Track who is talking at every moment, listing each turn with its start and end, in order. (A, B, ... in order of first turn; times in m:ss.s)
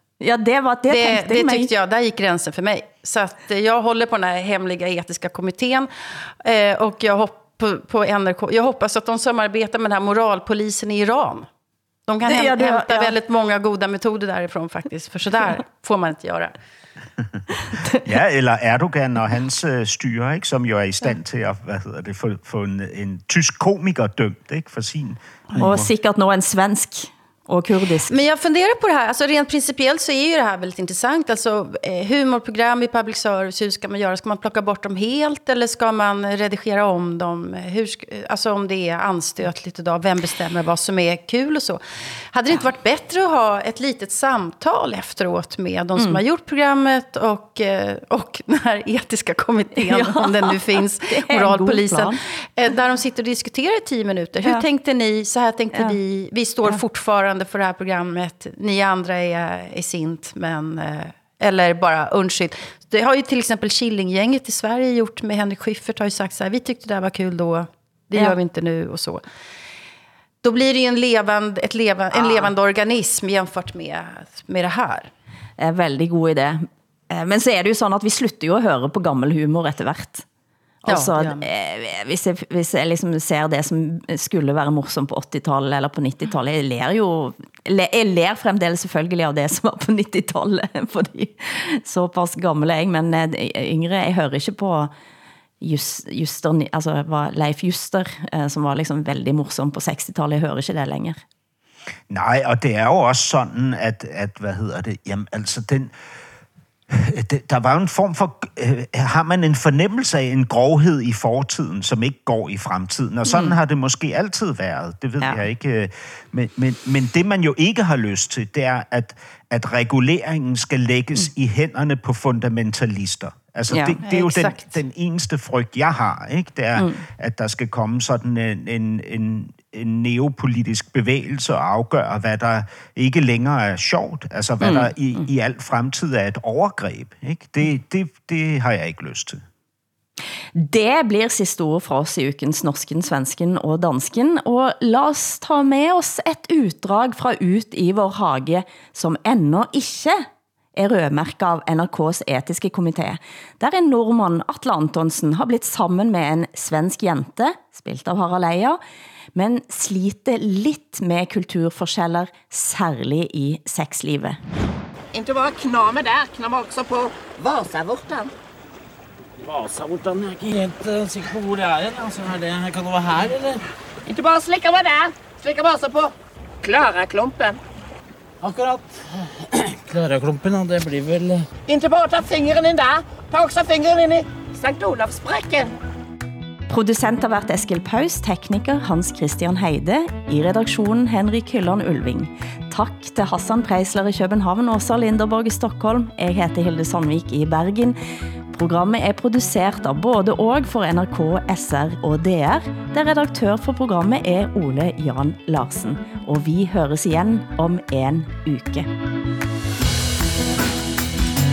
0:00.2-0:01.7 A
0:00.9-0:05.9 B
0:06.4-0:11.5 B
0:12.1-0:16.6 B
0:12.3-0:13.1 A
0:18.0-0:25.7 C
0:25.5-0:28.1 A
0:28.1-0:41.8 B
0:42.3-1:09.2 B
0:49.8-0:52.2 A
1:10.4-1:15.1 B
1:12.1-1:12.5 A
1:15.6-1:20.2 A
1:20.8-1:34.9 A
1:20.9-1:21.4 B
1:35.6-1:41.2 A
1:42.1-1:45.9 C
1:46.9-2:19.4 C
1:53.3-1:53.5 A
2:03.7-2:04.0 A
2:04.0-2:04.6 B
2:06.8-2:07.0 A
2:14.6-2:15.2 A
2:20.5-2:30.2 A
2:30.8-2:38.8 A
2:39.3-2:44.4 A
2:45.1-2:48.3 D
2:49.4-2:53.6 E
2:54.1-2:57.6 D
2:58.4-3:01.5 E
3:01.6-3:05.7 D
3:06.7-3:18.0 A
3:18.5-3:28.9 A